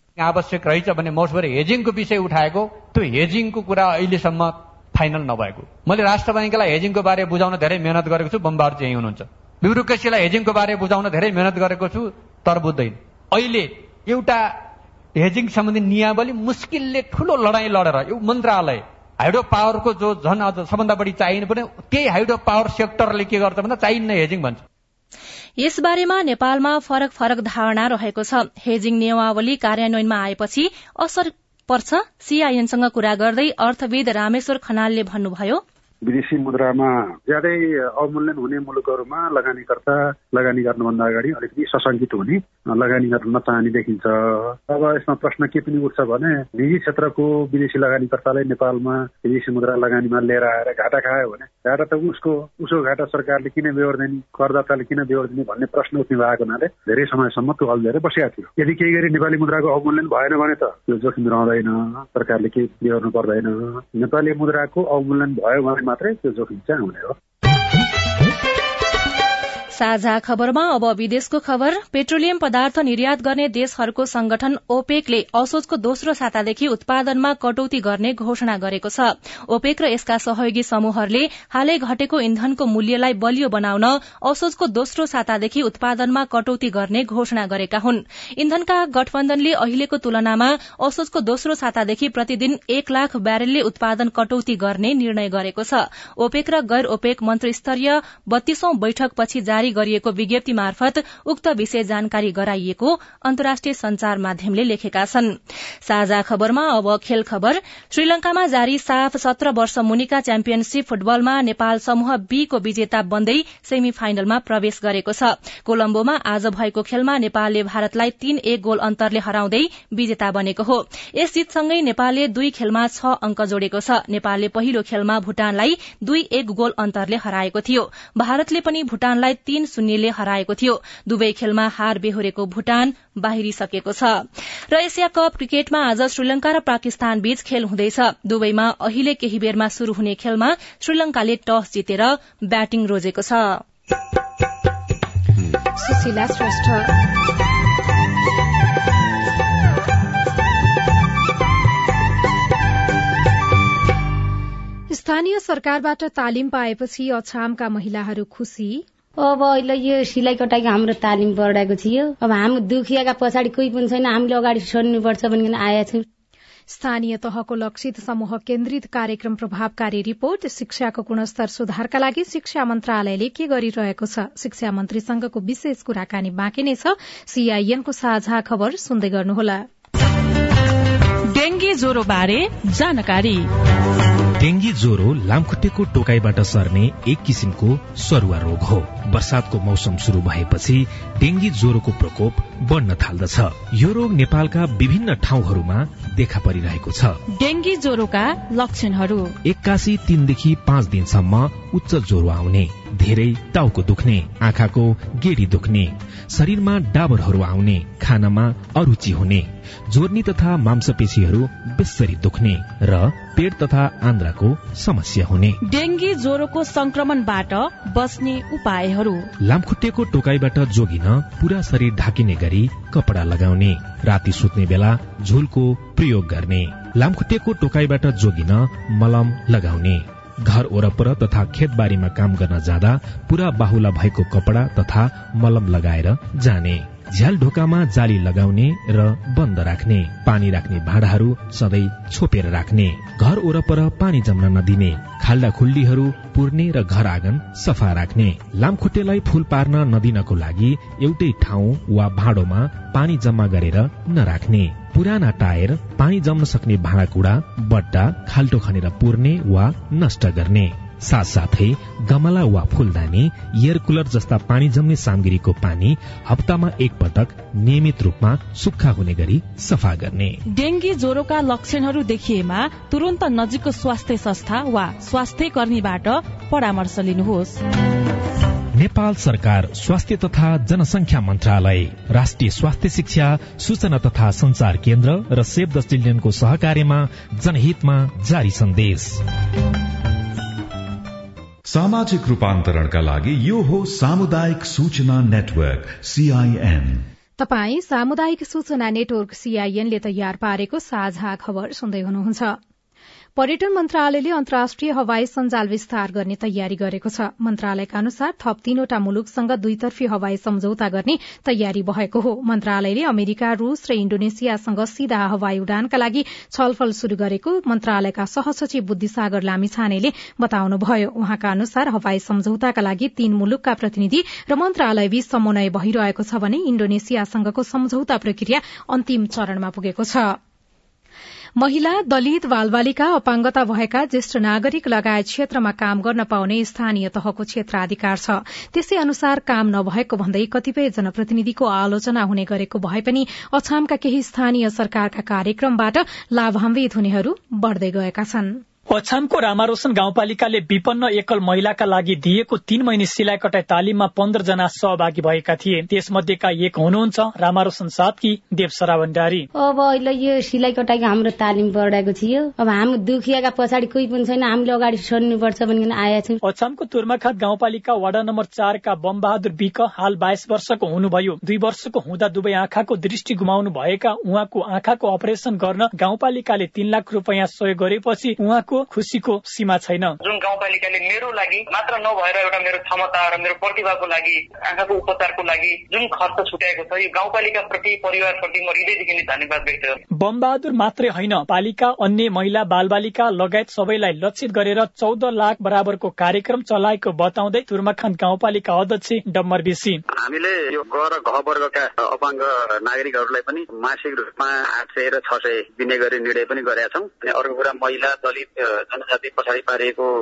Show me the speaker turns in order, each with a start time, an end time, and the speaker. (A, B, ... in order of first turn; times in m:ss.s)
0:00.2-0:14.5 A
0:15.2-0:24.6 A
0:25.6-0:35.6 B
0:36.0-1:07.1 C
1:09.7-2:23.6 B
2:25.8-2:26.9 D
2:34.9-2:38.8 D
2:39.2-2:46.0 E
2:46.7-2:59.6 D
3:01.3-3:03.5 F
3:04.4-3:17.2 G
3:17.3-3:19.3 F
3:19.4-3:35.6 G
3:35.6-3:39.3 F
3:39.4-4:30.4 G
4:30.5-4:37.6 F
4:38.7-4:49.2 G
4:51.6-4:57.1 H
4:57.4-5:02.6 D
5:03.4-5:30.4 D
5:31.6-5:48.6 D
5:48.9-5:59.4 I
5:59.5-6:06.4 E
6:06.4-6:20.2 I
6:20.2-6:30.0 J
6:30.2-6:40.0 I
6:41.0-6:42.3 K
6:42.9-6:43.4 K
6:43.9-6:45.7 K
6:46.4-6:47.3 K
6:48.9-6:49.8 K